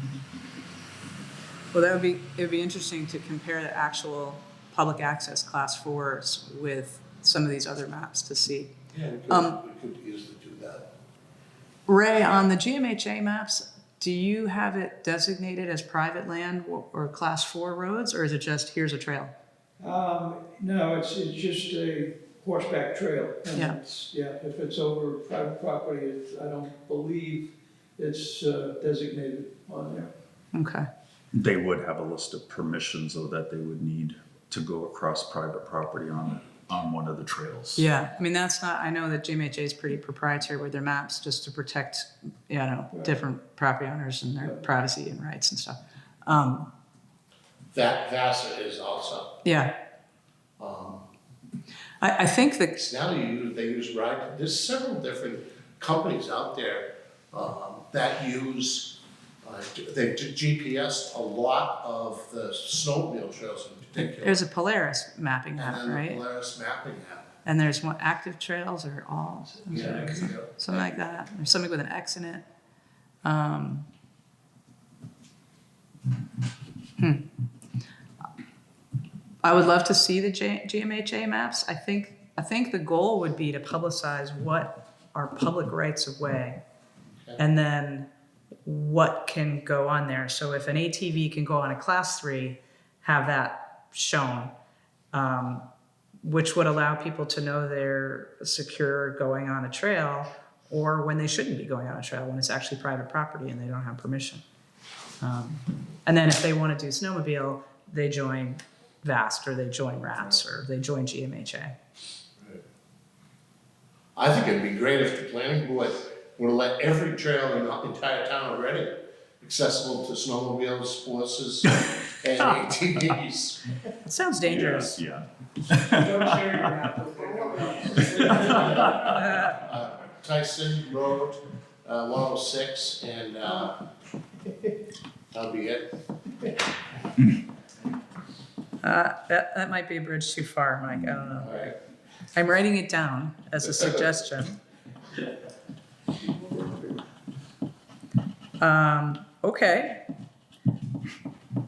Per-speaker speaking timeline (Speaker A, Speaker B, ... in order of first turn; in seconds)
Speaker A: 1.7-8.7, 9.3-9.6, 11.9-19.3, 23.5-23.8, 30.5-30.9, 37.8-46.7, 49.4-49.7, 52.0-52.8, 64.1-66.2, 67.5-72.4, 73.2-73.9, 77.0-77.2, 79.4-86.6, 87.4-88.1, 88.7-94.5, 95.1-95.7, 96.2-104.4, 105.2-111.8, 124.0-125.0, 128.3-129.5, 138.8-141.8, 142.3-144.6, 148.6-150.1
Speaker B: 8.9-10.9, 47.7-49.4, 50.6-51.1, 52.8-64.4, 65.6-67.3, 69.7-71.0, 114.2-123.8, 127.6-133.9, 135.3-135.9, 141.3-141.8, 143.6-144.0
Speaker C: 19.8-30.1, 44.4-44.6, 69.5-70.4, 126.0-128.9
Speaker D: 31.3-37.8, 124.4-126.7, 128.4-129.1